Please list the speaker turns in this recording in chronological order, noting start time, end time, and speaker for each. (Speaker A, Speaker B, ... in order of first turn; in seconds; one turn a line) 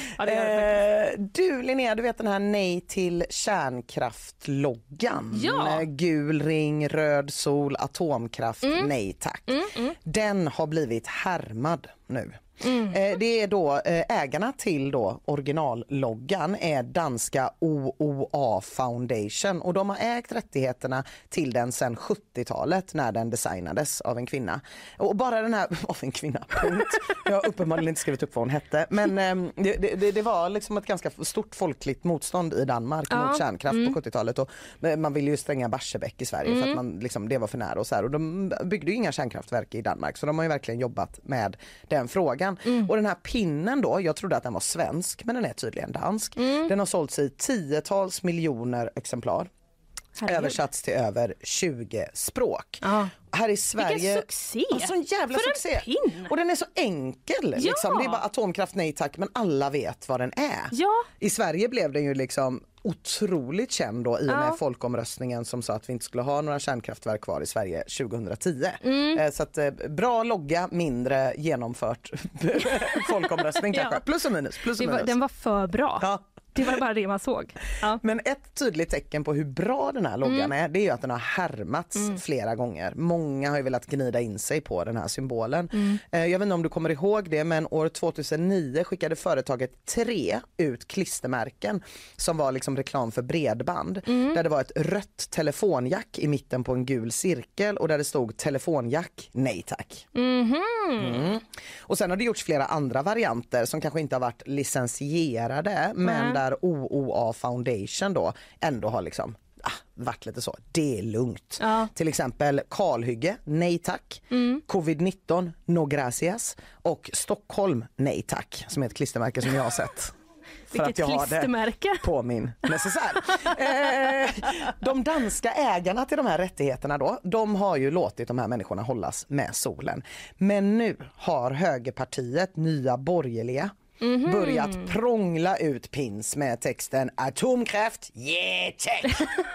Speaker A: 0.2-49.5
Speaker B: 0.2-0.8
Speaker B: 5.3-5.8
Speaker B: 8.6-8.9
Speaker B: 9.5-9.9
Speaker B: 12.6-13.0
Speaker B: 33.1-34.0
Speaker B: 36.5-36.8
Speaker B: 42.7-42.9
Speaker B: 46.4-46.7
Speaker B: 50.2-50.6
Speaker A: 50.2-75.2
Speaker B: 52.8-53.1
Speaker B: 53.8-56.3
Speaker B: 57.6-58.2
Speaker B: 60.7-61.1
Speaker B: 64.3-64.6
Speaker B: 68.8-69.2
Speaker B: 73.7-74.0
Speaker B: 74.8-78.0
Speaker A: 76.0-76.6
Speaker A: 77.9-100.1
Speaker B: 94.1-94.4
Speaker B: 100.2-101.3
Speaker A: 101.0-120.1
Speaker B: 106.0-106.4
Speaker B: 111.6-111.9
Speaker B: 114.3-114.6
Speaker B: 120.7-122.0
Speaker A: 120.7-139.3
Speaker B: 134.0-134.9